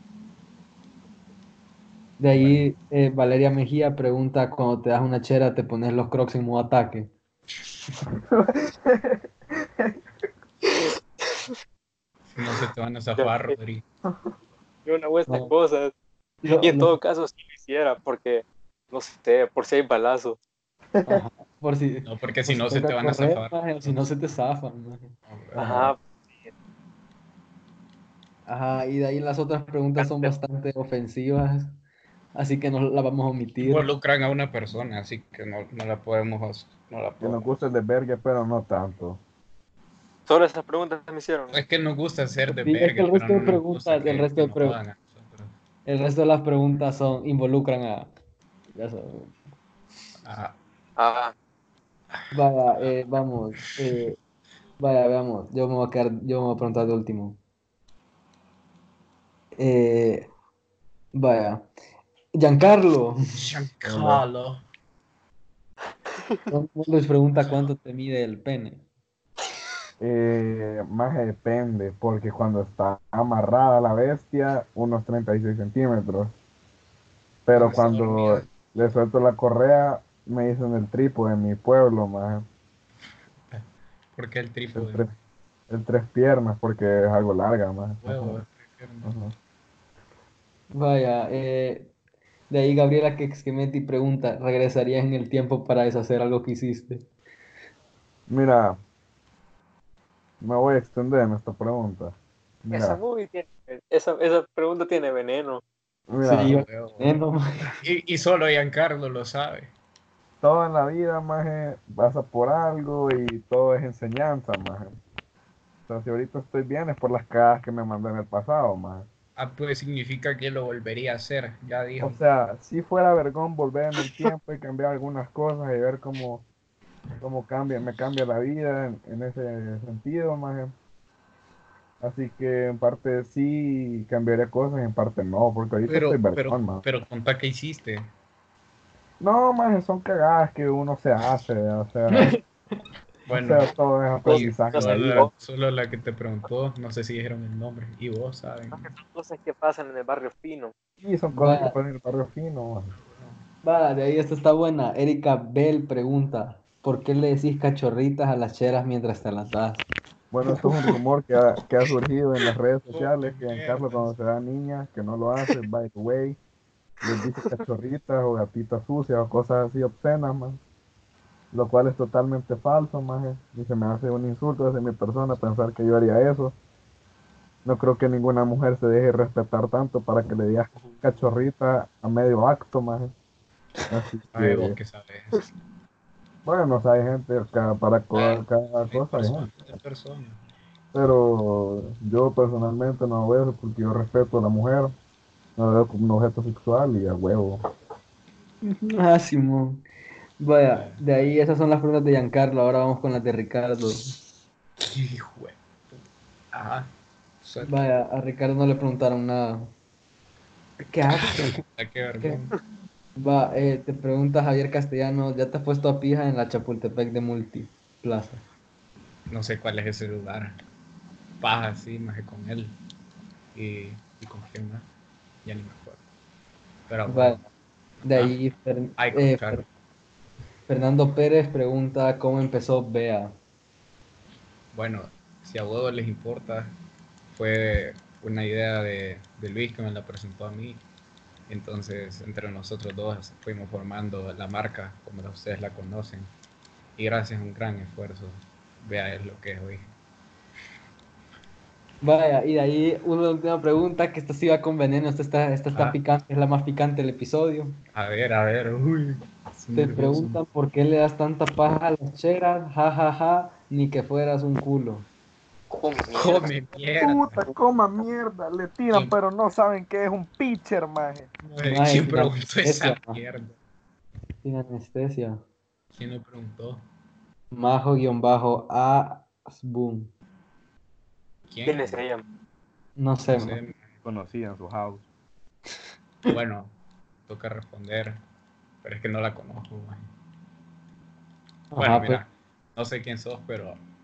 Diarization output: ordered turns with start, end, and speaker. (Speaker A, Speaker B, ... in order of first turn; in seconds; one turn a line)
Speaker A: 2.2-7.1
Speaker B: 2.3-2.6
Speaker C: 8.3-9.2
Speaker D: 11.3-11.5
Speaker B: 12.3-13.8
Speaker D: 13.2-13.5
Speaker D: 14.8-15.9
Speaker A: 15.3-15.5
Speaker A: 16.4-16.9
Speaker D: 16.5-20.4
Speaker A: 21.1-25.1
Speaker B: 22.0-24.3
Speaker B: 25.3-25.9
Speaker D: 25.5-26.5
Speaker A: 28.4-31.7
Speaker D: 30.0-30.4
Speaker A: 32.3-33.9
Speaker B: 33.6-37.5
Speaker C: 37.2-39.2
Speaker D: 40.3-41.5
Speaker B: 41.5-45.5
Speaker A: 42.5-44.8
Speaker A: 45.8-48.1
Speaker A: 48.7-49.3
Speaker B: 50.2-50.5
Speaker D: 51.0-51.3
Speaker A: 52.3-54.2
Speaker A: 54.8-57.4
Speaker A: 59.5-60.3
Speaker A: 61.1-61.7
Speaker A: 62.3-63.1
Speaker B: 63.3-64.6
Speaker C: 63.8-64.2
Speaker A: 66.5-68.8
Speaker C: 70.0-76.3
Speaker C: 77.5-82.5
Speaker B: 77.5-78.5
Speaker B: 83.5-85.2
Speaker C: 84.7-85.1
Speaker C: 85.7-88.4
Speaker B: 88.0-89.1
Speaker C: 89.0-89.3
Speaker A: 90.7-91.9
Speaker A: 92.5-97.0
Speaker C: 98.3-98.8
Speaker C: 100.4-103.0
Speaker D: 102.7-105.6
Speaker C: 106.1-106.5
Speaker A: 106.2-107.7
Speaker B: 106.4-107.2
Speaker B: 107.8-109.7
Speaker C: 110.4-114.9
Speaker C: 115.9-119.1
Speaker B: 119.3-122.2
Speaker C: 122.0-126.4
Speaker C: 127.2-130.7
Speaker C: 132.0-136.8
Speaker B: 135.8-138.1
Speaker C: 139.2-142.3
Speaker B: 143.3-148.9
Speaker C: 143.3-145.3
Speaker D: 144.2-145.3
Speaker D: 148.7-150.7
Speaker C: 151.0-152.9
Speaker A: 151.3-151.8
Speaker B: 153.1-153.4
Speaker A: 153.6-159.8
Speaker C: 160.3-166.4
Speaker B: 162.9-164.1
Speaker C: 167.0-170.6
Speaker C: 171.5-176.5
Speaker C: 177.6-183.1
Speaker C: 183.9-184.8
Speaker B: 184.3-185.4
Speaker C: 186.4-189.5
Speaker D: 188.1-188.4
Speaker B: 188.9-190.4
Speaker C: 190.9-194.9
Speaker C: 195.6-197.6
Speaker A: 198.6-199.8
Speaker A: 200.4-204.0
Speaker B: 200.7-201.0
Speaker B: 204.8-206.9
Speaker B: 207.4-207.7
Speaker A: 207.6-209.7
Speaker A: 210.8-211.6
Speaker B: 211.3-212.6
Speaker A: 213.2-218.4
Speaker B: 219.3-220.6
Speaker B: 221.4-222.8
Speaker B: 223.5-224.9
Speaker B: 225.4-226.0
Speaker B: 226.9-227.4
Speaker A: 227.1-227.4
Speaker B: 228.0-228.3
Speaker A: 228.0-229.6
Speaker B: 229.0-229.7
Speaker A: 230.7-233.3
Speaker B: 234.7-236.8
Speaker B: 237.3-240.8
Speaker B: 241.5-246.3
Speaker B: 247.0-249.9
Speaker A: 252.0-257.8
Speaker B: 255.7-256.0
Speaker B: 257.9-260.4
Speaker A: 259.7-265.1
Speaker D: 265.7-266.5
Speaker B: 266.1-267.4
Speaker C: 267.0-271.3
Speaker B: 271.4-273.6
Speaker A: 271.6-273.2
Speaker A: 274.4-275.4
Speaker B: 275.9-276.8
Speaker A: 277.5-280.1
Speaker B: 281.5-282.1
Speaker D: 281.6-282.2
Speaker A: 282.9-283.6
Speaker B: 283.3-283.8
Speaker C: 284.0-285.1
Speaker B: 286.3-288.2
Speaker B: 288.8-290.1
Speaker A: 291.7-292.2
Speaker B: 291.7-293.8